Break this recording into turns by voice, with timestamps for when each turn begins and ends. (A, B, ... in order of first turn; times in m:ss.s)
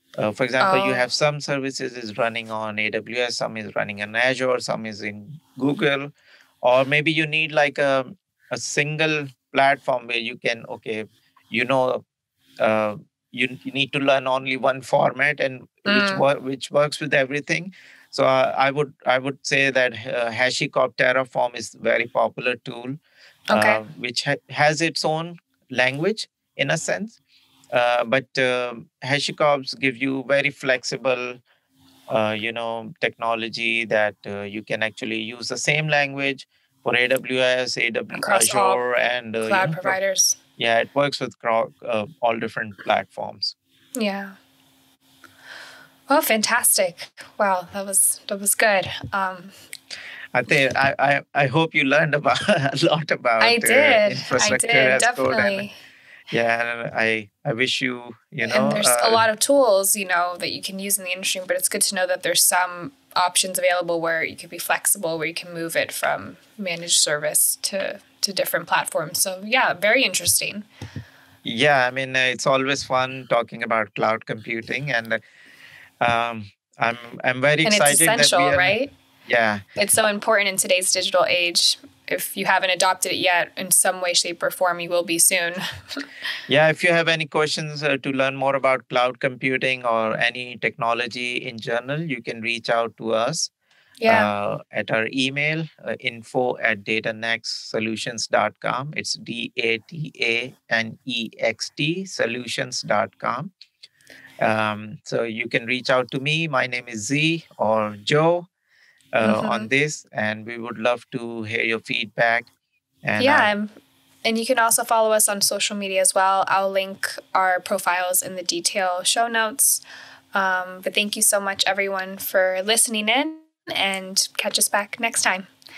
0:00.2-0:12.0 A
0:00.6-0:01.1 B
0:12.6-0:23.0 A
0:15.9-0:16.2 B
0:23.5-0:23.8 B
0:23.5-0:27.2 A
0:27.7-0:31.4 A
0:32.1-0:40.0 A
0:38.2-0:38.8 B
0:39.4-0:40.4 B
0:40.6-0:43.6 A
0:44.0-0:44.4 B
0:46.1-0:49.6 B
0:50.3-0:55.7 A
0:53.4-0:55.8 B
0:56.3-0:59.2 A
0:58.4-1:10.7 B
1:11.4-1:15.2 A
1:16.0-1:18.8 A
1:17.6-1:18.9 B
1:19.3-1:19.6 A
1:19.8-1:25.6 B
1:26.5-1:33.5 A
1:34.0-1:34.3 B
1:34.1-1:43.5 A
1:44.4-1:48.5 A
1:49.1-1:52.5 A
1:49.2-1:49.7 B
1:53.0-1:53.5 A
1:53.2-1:53.7 B
1:54.2-1:59.8 B
2:00.3-2:05.5 B